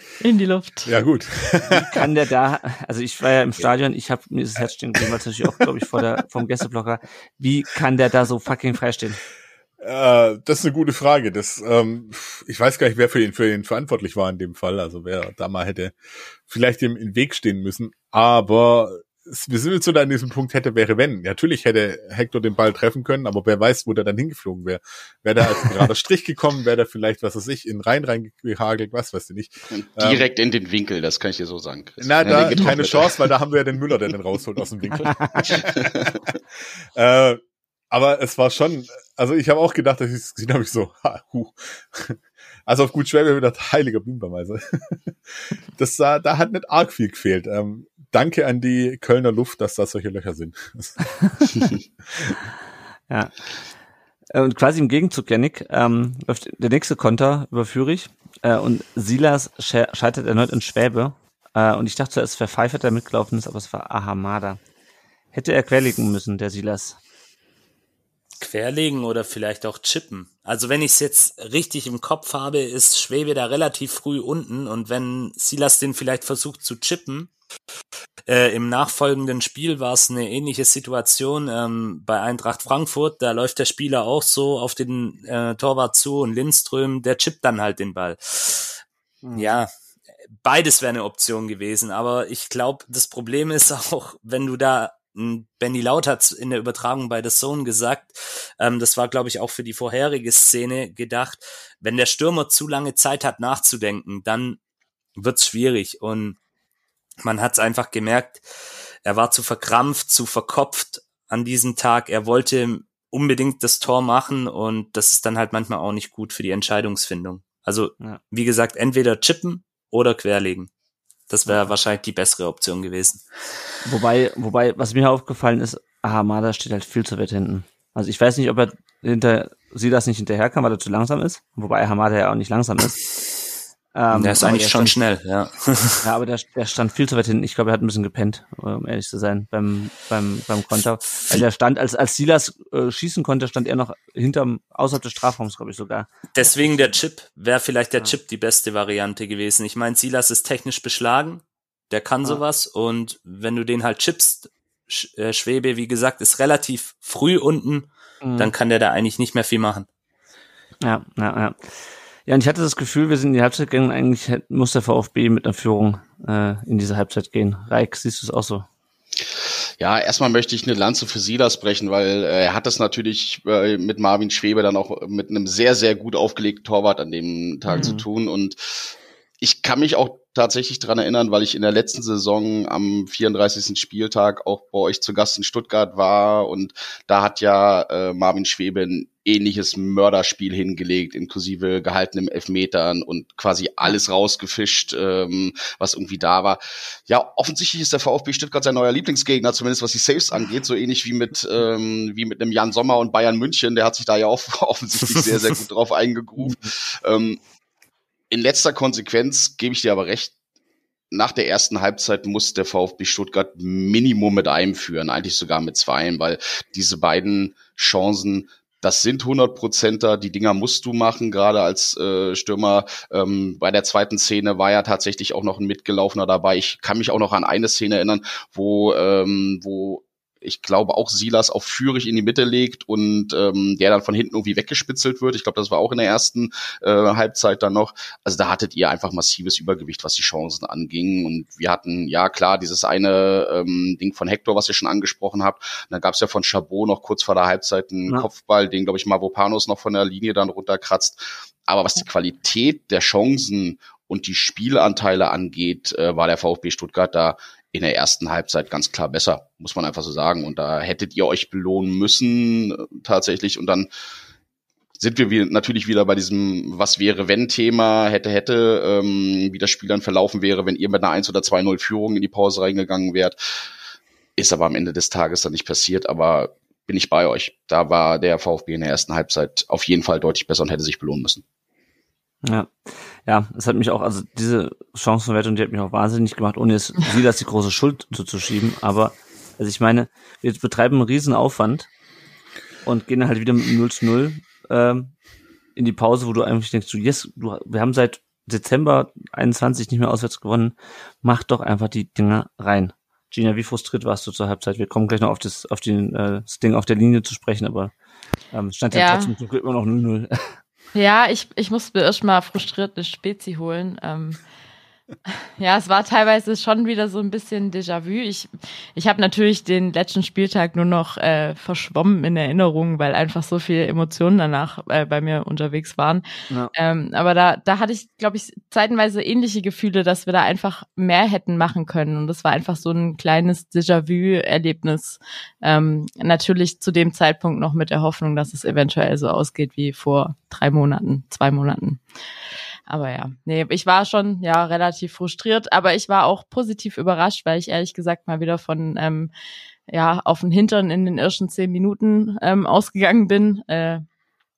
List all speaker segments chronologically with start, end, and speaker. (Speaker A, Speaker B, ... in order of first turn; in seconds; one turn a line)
Speaker A: 0.2-0.9
Speaker B: 0.8-2.1
Speaker C: 1.7-9.2
Speaker B: 9.8-30.3
Speaker D: 29.7-33.3
Speaker B: 32.0-36.3
Speaker C: 35.1-35.5
Speaker D: 35.4-36.2
Speaker B: 37.0-45.1
Speaker B: 45.8-51.1
Speaker C: 54.3-64.6
Speaker C: 65.3-67.0
Speaker E: 68.4-77.3
Speaker E: 78.2-88.8
Speaker C: 89.2-89.6
Speaker E: 89.3-89.7
Speaker E: 90.4-104.6
Speaker E: 105.2-106.4
Speaker E: 107.2-108.4
Speaker E: 109.0-120.7
Speaker E: 121.3-123.2
Speaker C: 123.8-133.0
Speaker C: 133.9-134.9
Speaker E: 134.1-136.0
Speaker C: 136.0-146.1
Speaker E: 146.3-159.9
Speaker C: 158.2-158.5
Speaker C: 160.8-161.6
Speaker C: 162.3-168.6
Speaker D: 169.8-207.4
Speaker A: 177.7-177.9
Speaker C: 177.8-178.0
Speaker C: 206.4-206.7
Speaker D: 208.3-210.3
Speaker D: 211.1-263.9
Speaker D: 265.0-273.4
Speaker D: 274.4-281.4
Speaker C: 282.4-291.9
Speaker C: 292.8-295.1
Speaker C: 295.8-307.9
Speaker C: 308.5-310.5
Speaker A: 308.9-309.3
Speaker A: 310.9-314.4
Speaker A: 315.6-326.2
Speaker A: 326.7-342.0
Speaker A: 342.9-349.3
Speaker A: 349.9-354.0